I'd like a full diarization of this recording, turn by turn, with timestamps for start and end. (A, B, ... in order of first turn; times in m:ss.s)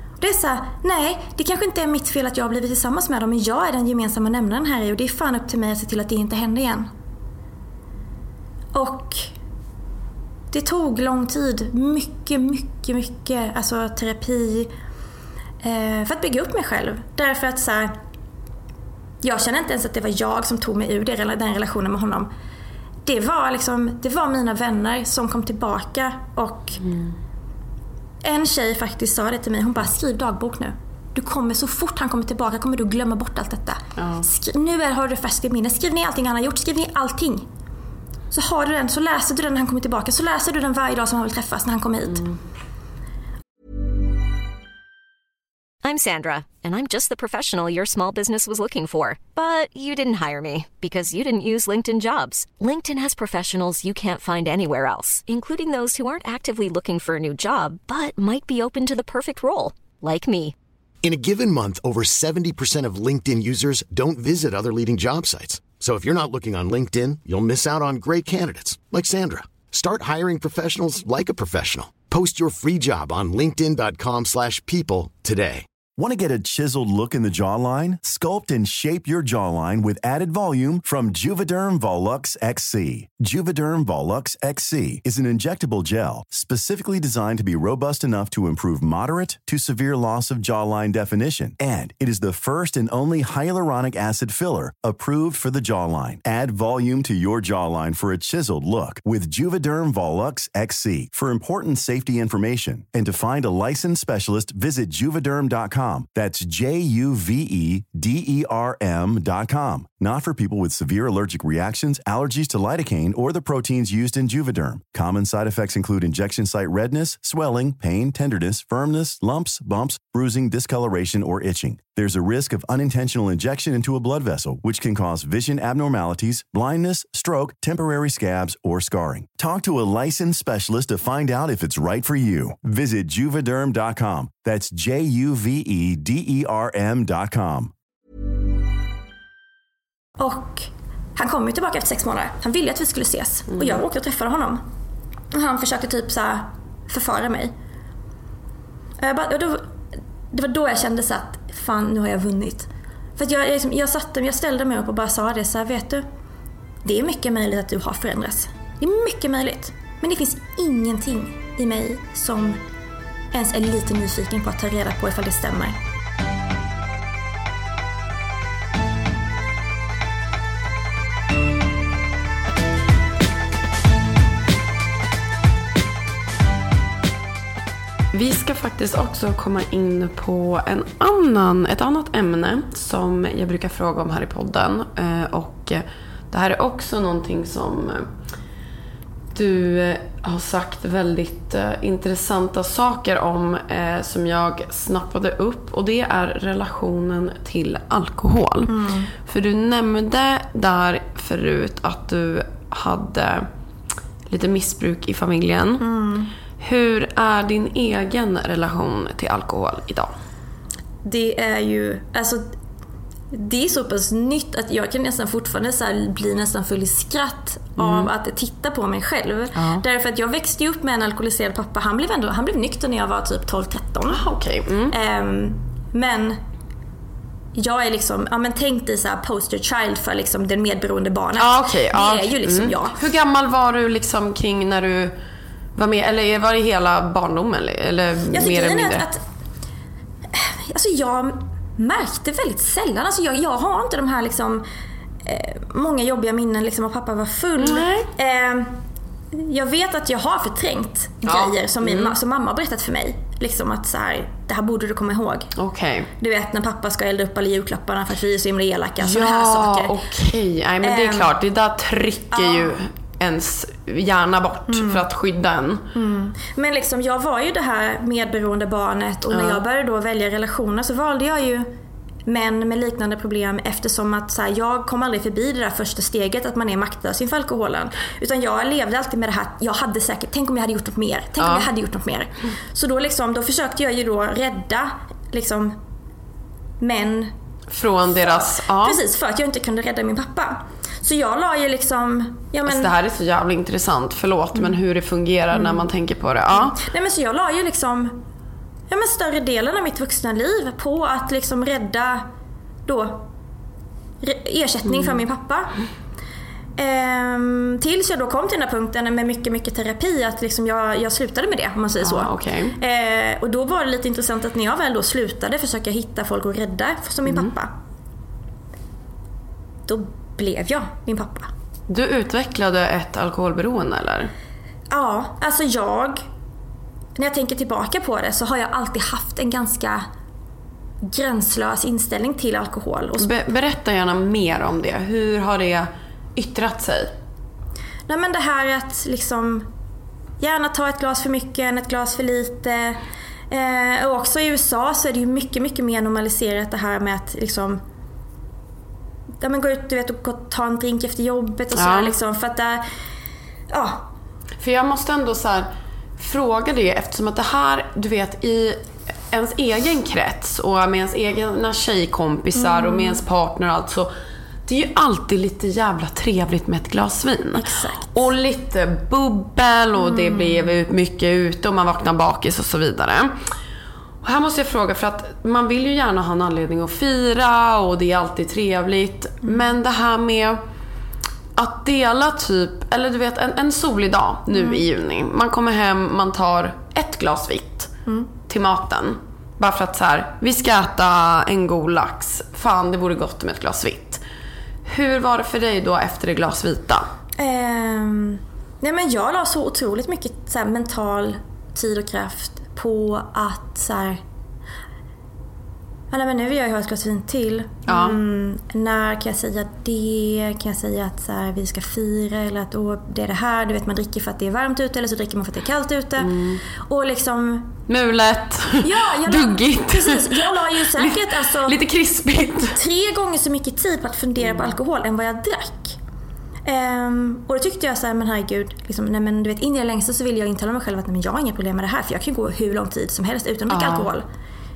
0:00.2-0:06.9 A
0:08.7-0:09.3 A
0:10.5-0:14.7 A
0:15.6-0:17.9 A
0:19.2-0:22.3 A
0:23.0-0:26.8 A
0:26.8-0:27.1 B
0:28.2-0:37.4 A
0:34.0-0:34.2 B
0:38.3-0:42.2 A
0:45.8-1:00.6 C
1:01.0-1:15.7 D
1:15.9-2:17.7 E
2:20.2-2:24.6 A
2:25.3-2:27.5 A
2:29.0-2:29.6 A
2:30.3-2:36.0 A
2:36.8-2:42.6 A
2:43.3-2:45.7 A
2:58.1-3:08.1 B
3:09.3-3:18.7 B
3:18.6-3:19.1 A
3:19.2-3:23.5 B
3:24.3-3:25.8 B
3:25.8-3:26.3 A
3:26.6-3:30.1 B
3:31.0-3:32.5 A
3:33.3-3:44.2 A
3:37.8-3:38.1 B
3:39.6-3:39.8 B
3:44.1-3:44.9 B
3:44.9-3:46.4 A
3:47.6-3:53.0 A
3:51.4-3:55.1 B
3:55.8-3:59.0 B
3:58.3-3:59.2 A
4:00.3-4:04.6 A
4:05.2-4:08.7 A
4:07.6-4:08.1 B
4:09.3-4:15.5 A
4:11.2-4:12.2 B
4:15.6-4:16.1 B
4:16.2-4:19.9 A
4:19.0-4:25.8 B
4:20.8-4:21.3 A
4:22.3-4:22.8 A
4:24.7-4:25.0 A
4:25.9-4:31.7 A
4:29.3-4:29.6 B
4:32.3-4:45.8 A
4:41.4-4:41.7 B
4:46.8-4:47.3 A
4:47.7-4:49.0 B
4:48.2-4:52.9 A
4:52.6-4:56.8 B
4:55.5-4:55.8 A
4:56.5-4:58.2 A
4:58.9-5:02.2 A
5:02.9-5:03.3 A
5:04.2-5:05.7 A
5:04.9-5:05.2 B
5:06.8-5:17.7 A
5:12.0-5:12.8 B
5:17.2-5:17.5 B
5:19.9-5:21.5 A
5:21.9-5:24.3 B
5:24.9-5:26.2 A
5:27.2-5:30.0 A
5:31.0-5:33.3 A
5:33.2-5:37.1 B
5:38.1-5:39.7 A
5:40.4-5:47.8 A
5:49.4-5:52.8 A
5:51.7-5:52.1 B
5:53.7-5:54.0 A
5:54.6-6:04.1 B
6:02.6-6:03.2 A
6:04.6-6:13.3 B
6:07.6-6:08.0 A
6:10.0-6:10.6 A
6:14.2-6:20.6 B
6:21.6-6:27.9 B
6:28.5-6:34.2 B
6:34.9-6:37.0 B
6:37.4-6:44.2 A
6:46.1-6:57.7 A
6:47.9-6:48.2 B
6:56.2-6:56.6 B
6:57.9-7:02.8 B
6:58.8-7:01.8 A
7:02.8-7:06.0 A
7:04.4-7:04.7 B
7:06.6-7:14.2 A
7:13.7-7:14.1 B